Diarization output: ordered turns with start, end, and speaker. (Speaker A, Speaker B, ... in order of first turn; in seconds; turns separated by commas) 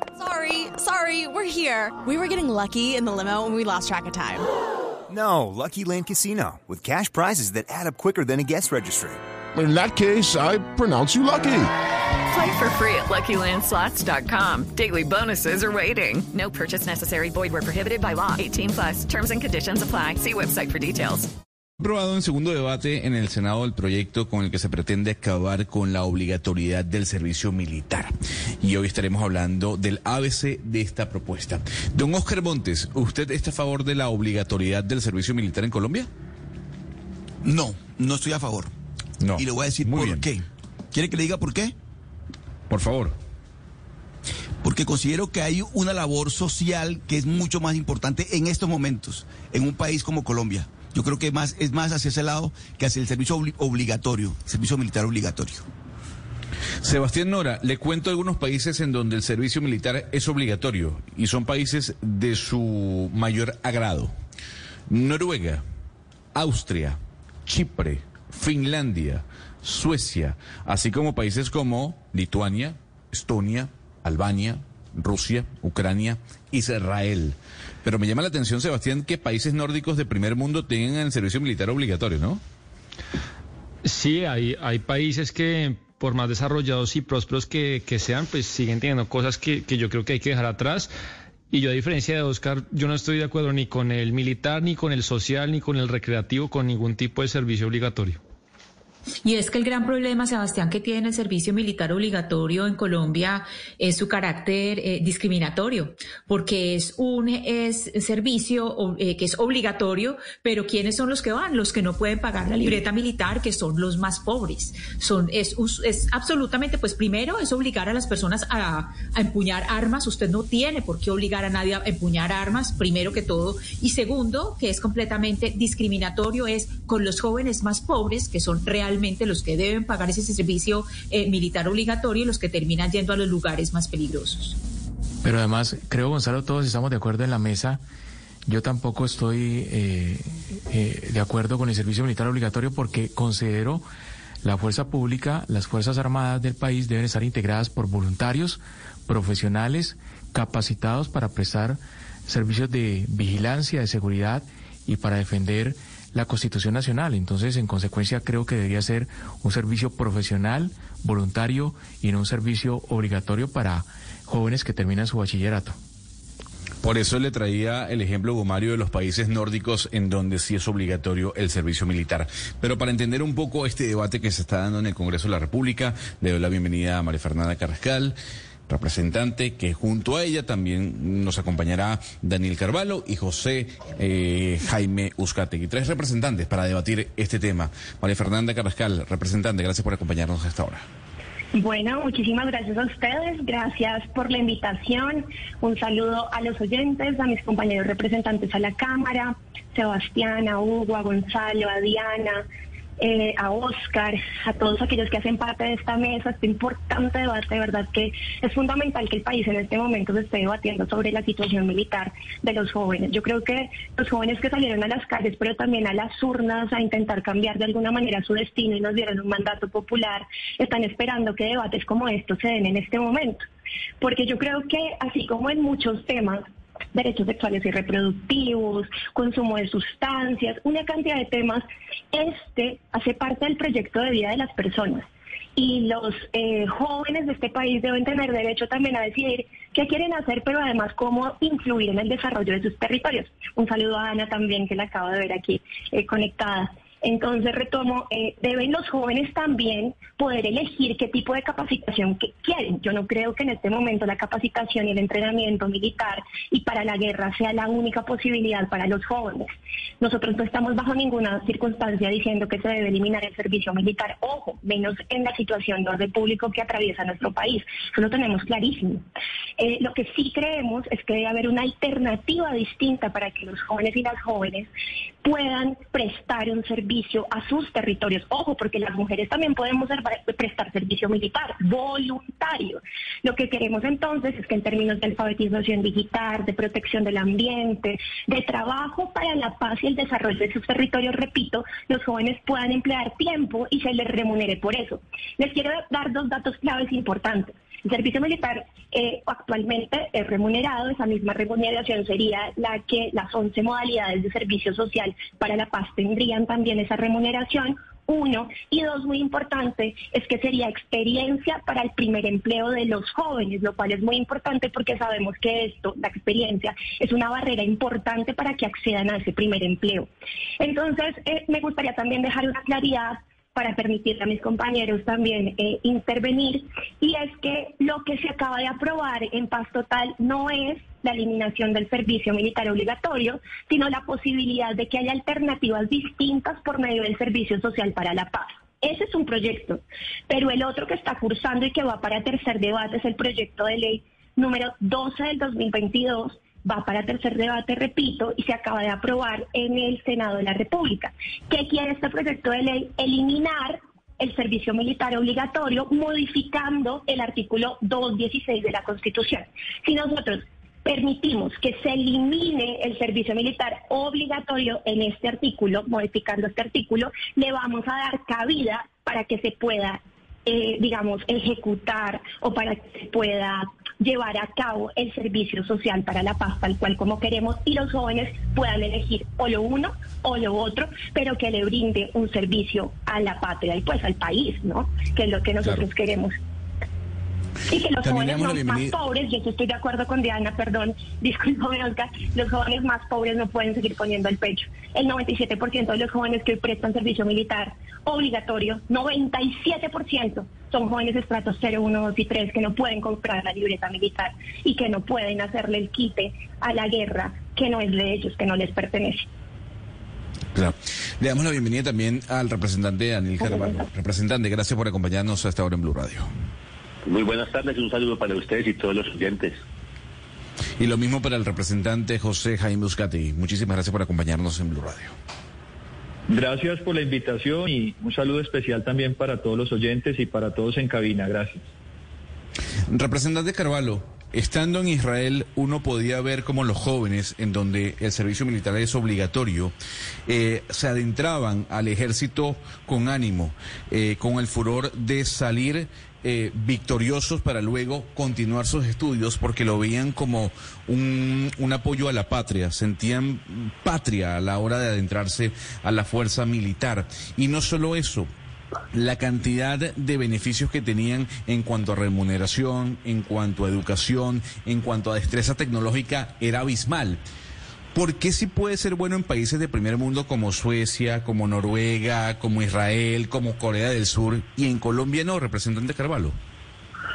Speaker A: 0.1-4.5, Speaker B: 5.1-9.2, Speaker C: 9.5-11.7, Speaker D: 12.3-21.3, Speaker E: 21.8-36.1, Speaker F: 37.4-38.7, Speaker E: 39.2-40.2, Speaker F: 39.3-41.7, Speaker E: 42.7-43.1, Speaker F: 44.6-55.6, Speaker E: 56.8-64.1, Speaker E: 64.9-65.6, Speaker E: 66.3-82.4, Speaker G: 83.8-90.9, Speaker G: 91.5-98.2, Speaker H: 99.2-134.6, Speaker I: 135.2-137.8, Speaker I: 138.4-143.8, Speaker I: 144.4-165.8, Speaker E: 166.8-178.2, Speaker E: 178.7-190.8, Speaker J: 191.5-202.4, Speaker J: 203.0-223.4, Speaker J: 224.0-269.0, Speaker J: 269.6-274.7, Speaker J: 275.2-320.1, Speaker J: 320.6-386.3, Speaker J: 387.7-409.3, Speaker E: 388.0-388.9, Speaker E: 410.5-416.3, Speaker K: 417.1-419.6, Speaker E: 420.8-425.1, Speaker L: 426.3-431.6, Speaker E: 432.9-439.7, Speaker E: 440.3-458.3, Speaker E: 458.9-467.2, Speaker E: 467.9-476.4